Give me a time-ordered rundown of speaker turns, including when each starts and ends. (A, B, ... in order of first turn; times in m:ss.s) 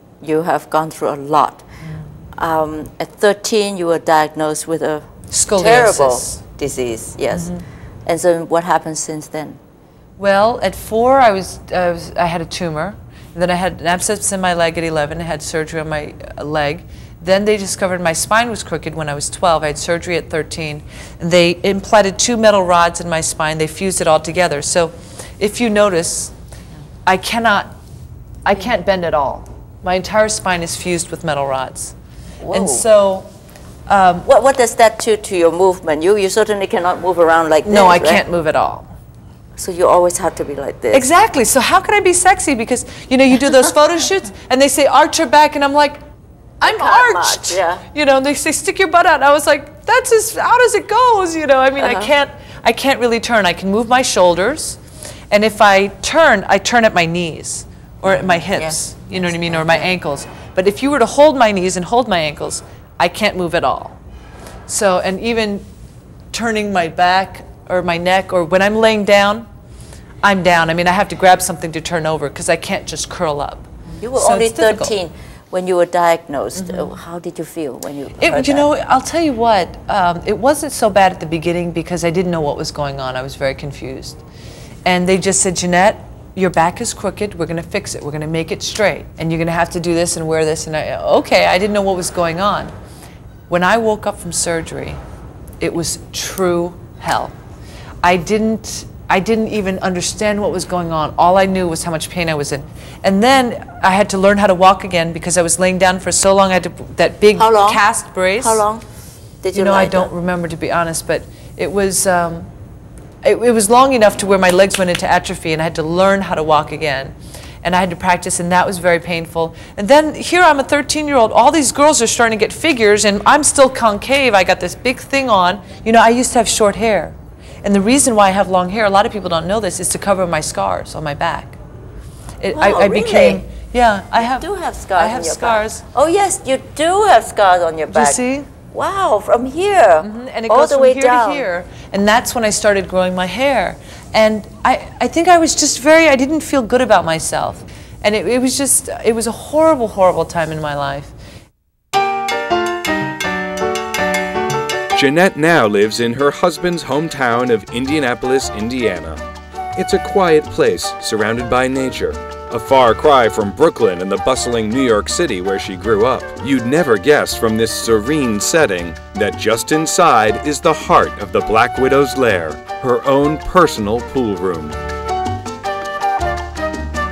0:00.2-0:01.6 A
0:02.4-0:07.5 A
0:05.3-0:06.4 B
0:08.0-0:09.6 A
0:10.2-0:26.3 B
0:27.0-0:27.7 B
0:28.4-0:31.9 B
0:32.4-0:32.8 A
0:32.5-0:33.3 B
0:33.9-0:34.3 B
0:34.2-0:38.2 A
0:37.6-0:38.9 B
0:39.6-0:41.0 A
0:40.9-0:46.0 B
0:46.6-0:54.8 B
0:46.6-0:47.8 A
0:51.8-0:52.1 A
0:55.3-1:04.0 B
0:58.0-0:58.8 A
1:04.7-1:05.6 B
1:06.3-1:09.4 B
1:10.2-1:15.0 B
1:14.0-1:18.7 A
1:16.6-1:16.9 B
1:18.2-1:24.2 B
1:24.8-1:32.7 B
1:33.5-1:35.0 B
1:35.6-1:37.3 B
1:38.0-1:48.6 B
1:47.4-1:47.8 A
1:48.4-1:48.8 A
1:49.4-1:50.1 A
1:49.5-1:52.5 B
1:53.2-2:11.6 B
2:12.4-2:15.8 B
2:12.5-2:13.4 A
2:14.2-2:18.2 A
2:17.9-2:18.5 B
2:18.7-2:21.4 A
2:20.0-2:31.1 B
2:34.9-2:39.2 C
2:39.8-2:54.8 C